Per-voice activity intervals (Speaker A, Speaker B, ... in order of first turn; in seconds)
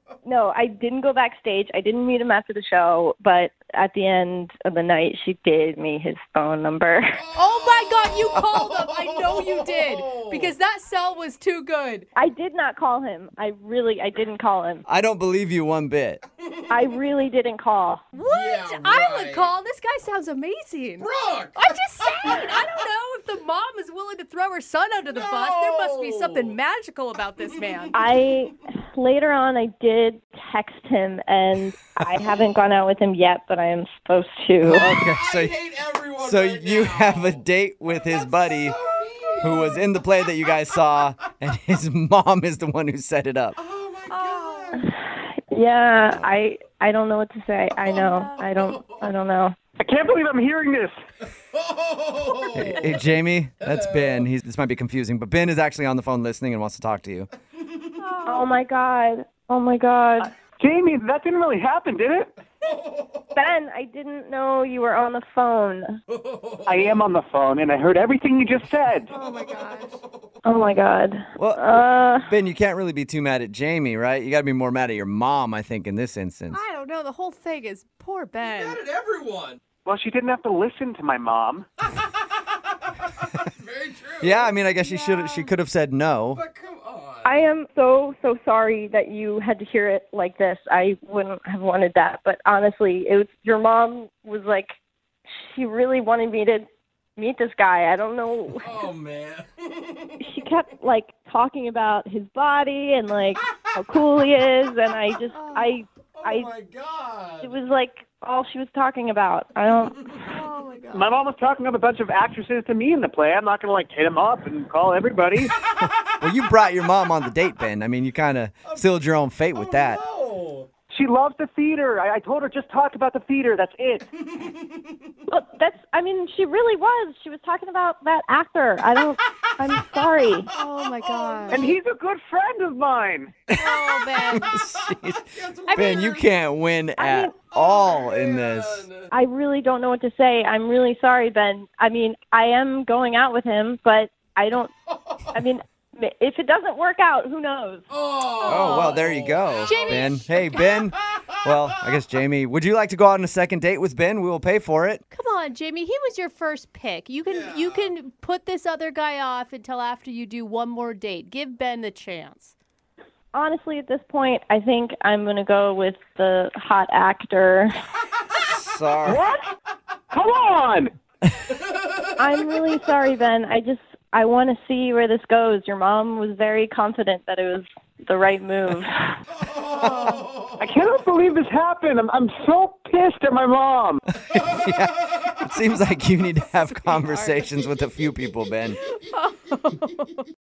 Speaker A: 0.2-7.2, 12.1-14.8, 16.7-18.1, 27.9-34.9, 44.7-49.5, 58.2-60.3, 63.3-66.0, 70.4-72.3, 87.2-94.7, 95.3-98.8, 100.2-106.5, 107.4-110.1, 125.3-130.5, 137.0-137.3, 139.1-144.7, 145.3-147.9, 163.3-167.7, 172.2-179.1
Speaker B: 7.2-10.5, 16.4-16.8, 18.2-19.5, 21.0-22.4, 25.1-26.6, 34.8-37.4, 38.0-39.9, 43.6-44.9, 48.5-49.0, 51.5-53.0, 53.7-54.2, 62.8-63.1, 66.2-66.9, 78.4-79.6, 83.4-84.5, 86.3-87.4, 98.6-100.3, 106.1-107.5, 115.6-116.0, 119.6-120.7, 124.2-125.1, 130.9-131.6, 135.3-136.2, 137.5-139.1, 147.9-151.7, 157.2-157.9, 179.4-180.6
Speaker C: 7.3-12.1, 18.1-27.9, 44.1-44.8, 47.9-48.4, 58.0-58.5, 69.1-70.0, 76.5-78.8, 84.8-85.5, 105.3-105.8, 110.3-111.1, 130.5-131.7, 133.5-134.5, 135.7-136.2, 148.3-149.1, 149.6-150.7, 155.1-162.5, 179.7-180.1, 186.6-187.5, 188.8-190.2
Speaker D: 14.8-16.2, 34.7-35.5, 36.2-38.8, 39.4-43.5, 52.5-57.3, 71.4-76.6, 84.2-86.4, 116.2-120.0, 133.5-138.8, 148.4-155.0, 168.4-169.2, 184.3-188.8
Speaker E: 49.8-50.9, 60.5-62.3, 66.7-69.1, 79.8-81.7, 110.9-115.5, 120.9-124.1, 131.5-133.4, 169.0-169.5, 170.1-170.9, 180.6-184.0